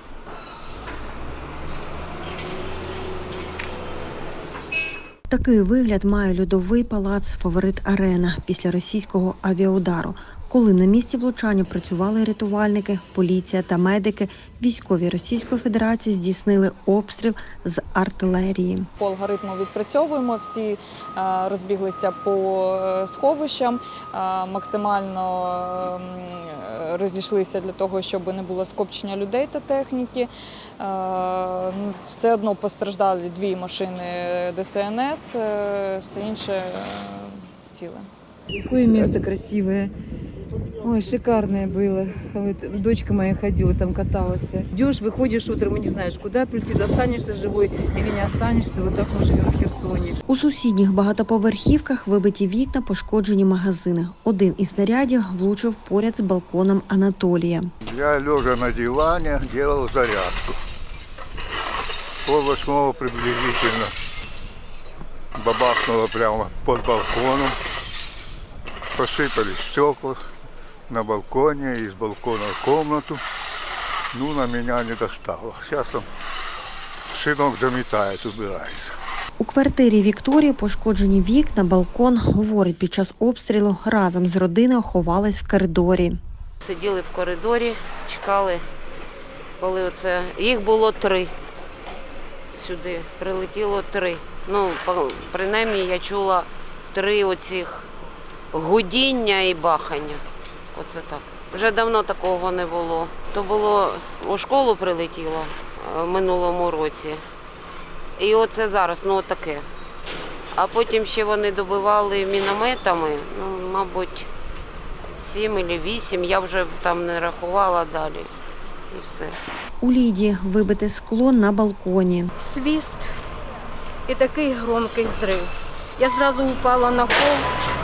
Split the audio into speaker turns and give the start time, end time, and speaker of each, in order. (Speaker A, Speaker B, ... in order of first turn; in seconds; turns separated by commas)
Speaker A: 5.3-18.9, Speaker B: 19.0-38.1, Speaker C: 38.6-39.9, Speaker C: 40.8-50.2, Speaker A: 50.3-57.7, Speaker D: 57.9-60.4, Speaker D: 62.2-63.9, Speaker D: 65.3-67.6, Speaker D: 69.0-70.2, Speaker D: 70.9-73.2, Speaker D: 74.1-76.1, Speaker D: 77.1-79.0, Speaker A: 79.4-86.2, Speaker E: 86.6-88.6, Speaker E: 89.6-91.3, Speaker E: 92.5-97.9, Speaker E: 98.5-100.2, Speaker E: 100.7-107.2, Speaker E: 108.2-109.7, Speaker E: 110.6-114.3, Speaker E: 115.2-118.3, Speaker E: 118.9-119.4, Speaker A: 119.8-122.3, Speaker F: 122.4-123.0, Speaker F: 124.1-127.5